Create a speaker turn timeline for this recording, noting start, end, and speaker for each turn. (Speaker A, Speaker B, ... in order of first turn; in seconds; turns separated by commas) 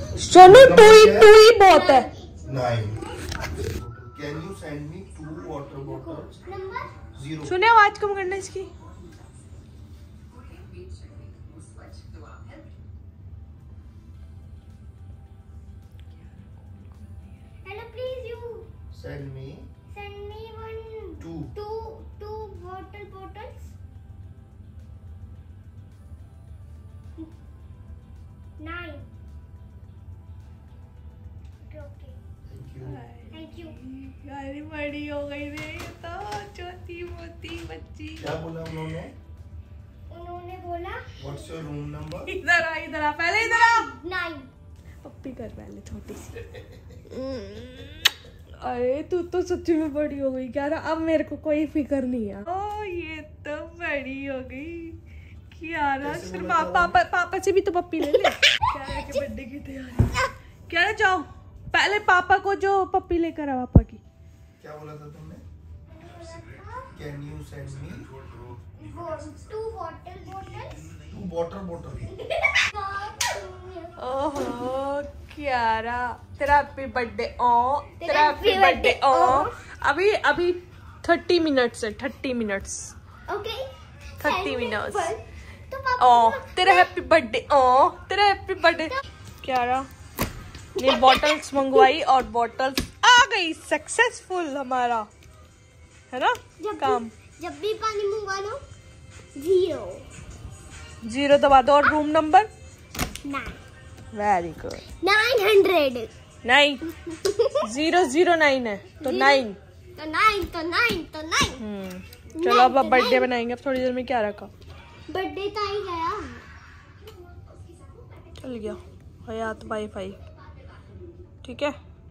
Speaker A: 0.2-2.1, Speaker B: 0.4-1.3, Speaker C: 1.5-2.5, Speaker B: 2.5-3.0, Speaker B: 3.6-6.3, Speaker C: 5.9-7.0, Speaker B: 7.1-7.5, Speaker A: 7.4-8.7, Speaker A: 16.2-17.4, Speaker C: 17.6-18.7, Speaker B: 18.9-19.7, Speaker C: 19.9-23.7, Speaker B: 21.2-21.5, Speaker C: 28.6-29.1, Speaker C: 31.6-32.2, Speaker B: 32.5-33.0, Speaker A: 32.8-38.2, Speaker C: 33.3-33.7, Speaker B: 38.2-39.1, Speaker C: 40.1-41.4, Speaker B: 41.2-42.3, Speaker A: 42.3-43.9, Speaker C: 43.4-44.5, Speaker A: 45.0-46.4, Speaker A: 47.1-47.9, Speaker A: 48.6-55.0, Speaker A: 55.5-64.0, Speaker B: 56.0-57.0, Speaker B: 64.6-65.4, Speaker C: 65.9-66.9, Speaker B: 66.9-68.1, Speaker C: 68.7-70.9, Speaker B: 71.1-72.1, Speaker C: 72.6-74.0, Speaker A: 74.0-82.9, Speaker C: 78.0-79.5, Speaker C: 83.3-83.7, Speaker C: 84.2-86.9, Speaker A: 84.2-85.1, Speaker A: 86.0-89.9, Speaker C: 90.8-91.4, Speaker A: 90.8-95.1, Speaker A: 96.1-97.1, Speaker C: 96.6-98.6, Speaker C: 99.3-100.0, Speaker A: 101.0-102.5, Speaker C: 103.2-103.6, Speaker A: 104.1-104.8, Speaker C: 104.9-106.1, Speaker A: 106.4-106.8, Speaker C: 106.8-107.7, Speaker A: 107.6-109.6, Speaker C: 109.0-111.6, Speaker A: 111.6-114.5, Speaker C: 112.3-113.3, Speaker C: 115.1-116.4, Speaker A: 118.4-120.2, Speaker A: 121.4-121.8